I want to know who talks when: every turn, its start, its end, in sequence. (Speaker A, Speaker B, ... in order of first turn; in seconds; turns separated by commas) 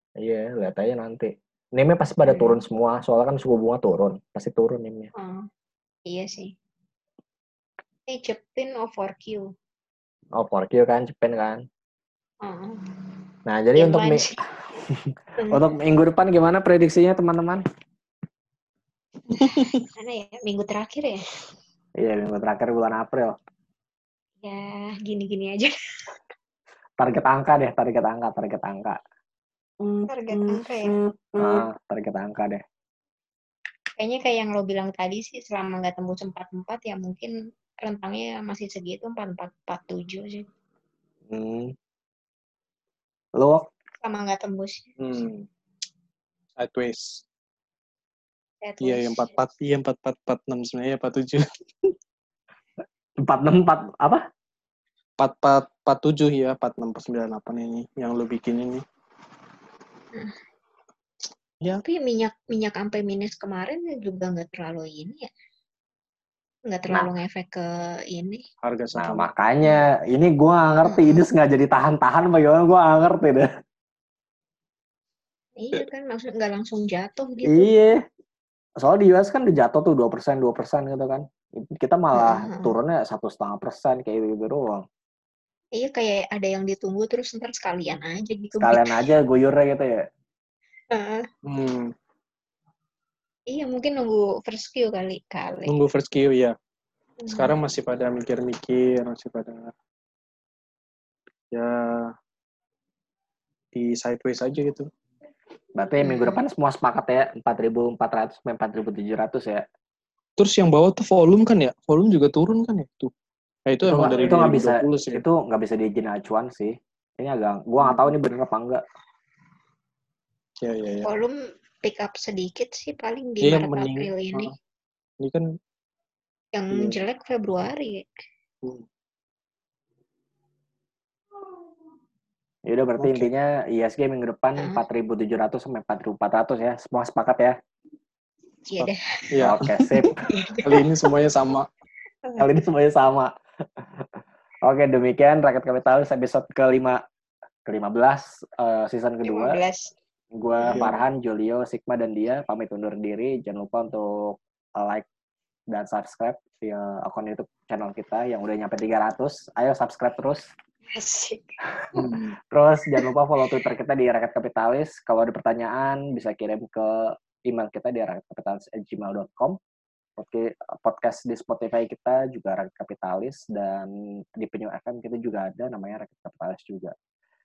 Speaker A: 0.2-5.1, Speaker B: 2.3-2.6, Speaker B: 5.2-5.5, Speaker B: 6.0-6.5, Speaker B: 8.1-9.5, Speaker A: 10.3-11.6, Speaker B: 12.4-12.8, Speaker A: 13.4-14.3, Speaker B: 13.8-14.3, Speaker A: 14.9-17.6, Speaker B: 19.3-21.2, Speaker C: 19.3-19.8, Speaker A: 22.0-23.4, Speaker B: 24.4-26.1, Speaker A: 27.0-29.0, Speaker B: 30.1-30.9, Speaker A: 31.4-32.6, Speaker B: 34.0-40.5, Speaker A: 41.3-41.7, Speaker A: 43.4-43.6, Speaker B: 44.0-44.9, Speaker C: 45.0-45.5, Speaker C: 46.6-47.2, Speaker B: 48.6-49.4, Speaker C: 48.8-51.5, Speaker A: 53.2-54.2, Speaker C: 55.2-58.8, Speaker B: 61.8-65.3, Speaker B: 66.7-68.4, Speaker C: 68.6-69.3, Speaker A: 69.0-73.5, Speaker B: 70.9-71.2, Speaker B: 75.6-77.7, Speaker A: 77.5-78.0, Speaker A: 78.8-84.8, Speaker B: 82.1-82.7, Speaker B: 85.8-89.1, Speaker A: 88.6-90.0, Speaker B: 90.9-91.2, Speaker C: 91.4-91.9, Speaker B: 93.5-95.7, Speaker C: 95.7-96.5, Speaker B: 97.2-97.6, Speaker C: 97.3-99.7, Speaker C: 101.5-102.1, Speaker C: 103.7-104.9, Speaker A: 105.8-109.6, Speaker B: 106.0-106.4, Speaker C: 110.4-113.1, Speaker C: 113.7-115.2, Speaker A: 113.8-118.8, Speaker C: 117.8-118.1, Speaker C: 120.6-121.1, Speaker B: 121.0-124.5, Speaker C: 123.4-124.5, Speaker C: 125.2-125.5, Speaker B: 126.5-128.1, Speaker C: 126.7-127.0, Speaker A: 132.7-137.6, Speaker C: 133.0-133.3, Speaker B: 138.7-139.1, Speaker C: 138.8-139.8, Speaker A: 139.4-140.2, Speaker B: 140.2-140.9, Speaker C: 140.6-141.7, Speaker A: 142.4-143.3, Speaker A: 144.6-147.0, Speaker A: 147.7-149.6, Speaker B: 149.2-149.9, Speaker A: 150.3-155.1, Speaker B: 150.6-150.9, Speaker C: 150.7-151.0, Speaker A: 155.7-160.4, Speaker B: 160.9-162.2, Speaker C: 162.0-162.3, Speaker A: 162.5-169.6, Speaker B: 162.9-163.6, Speaker A: 170.2-176.9